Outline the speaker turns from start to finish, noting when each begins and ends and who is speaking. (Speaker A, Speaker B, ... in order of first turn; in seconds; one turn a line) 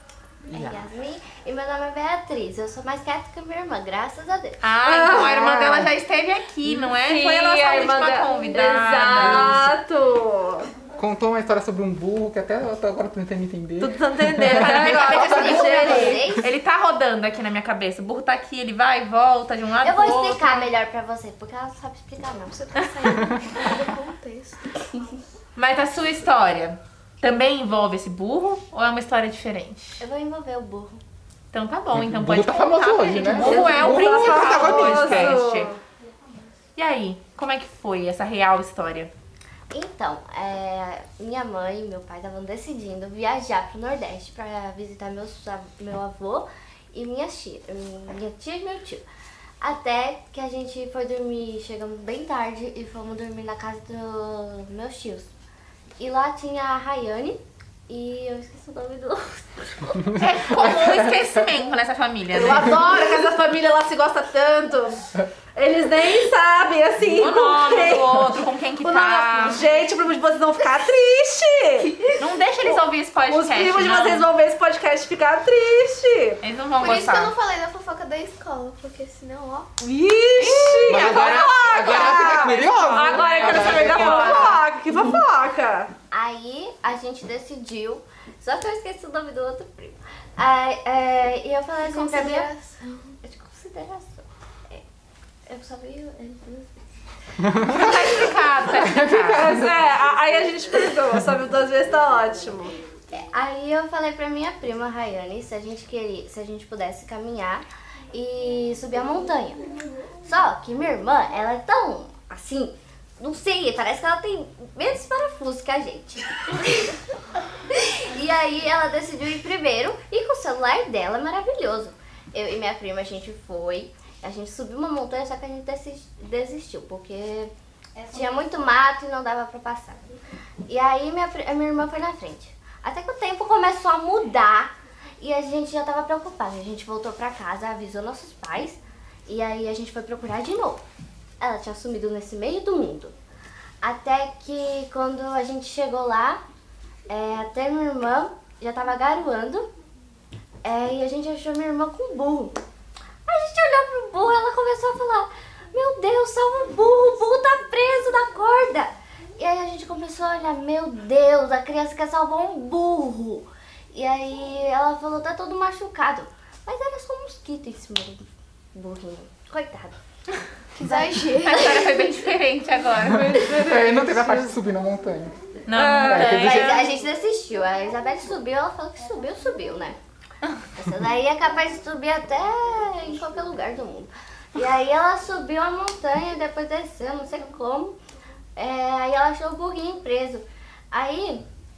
Speaker A: 0.5-0.8
Speaker B: 0.5-4.6
Speaker C: 4.6-9.7
Speaker D: 4.8-5.9
Speaker D: 6.7-10.7
Speaker A: 10.9-15.1
Speaker D: 13.8-16.2
Speaker C: 14.5-20.7
Speaker B: 15.0-16.4
Speaker B: 19.8-22.8
Speaker E: 22.6-24.7
Speaker C: 25.6-30.0
Speaker B: 30.0-31.0
Speaker C: 31.5-35.7
Speaker A: 31.9-35.4
Speaker D: 33.3-35.8
Speaker C: 36.8-39.1
Speaker B: 39.7-49.0
Speaker B: 49.6-55.3
Speaker B: 56.0-60.7
Speaker C: 60.2-62.8
Speaker D: 62.3-72.0
Speaker C: 67.1-69.7
Speaker C: 72.2-74.3
Speaker D: 73.3-76.4
Speaker C: 76.4-77.3
Speaker E: 76.8-79.7
Speaker D: 79.8-85.9
Speaker C: 80.3-84.7
Speaker A: 80.9-84.6
Speaker B: 86.1-92.5
Speaker E: 91.8-93.1
Speaker B: 93.2-94.8
Speaker B: 95.5-96.8
Speaker A: 97.4-99.9
Speaker C: 97.6-99.5
Speaker D: 99.1-102.7
Speaker B: 103.1-109.6
Speaker B: 110.2-117.0
Speaker B: 117.7-127.5
Speaker B: 128.1-130.1
Speaker B: 130.7-140.8
Speaker B: 141.4-143.1
Speaker B: 143.8-146.4
Speaker B: 147.1-149.7
Speaker B: 150.6-152.6
Speaker B: 153.3-169.9
Speaker E: 170.8-171.8
Speaker B: 170.8-172.1
Speaker C: 171.3-173.3
Speaker D: 173.0-174.6
Speaker A: 173.1-175.4
Speaker C: 175.7-176.8
Speaker D: 175.8-176.3
Speaker A: 176.0-176.8
Speaker B: 176.2-180.0
Speaker B: 180.8-187.9
Speaker B: 188.6-191.4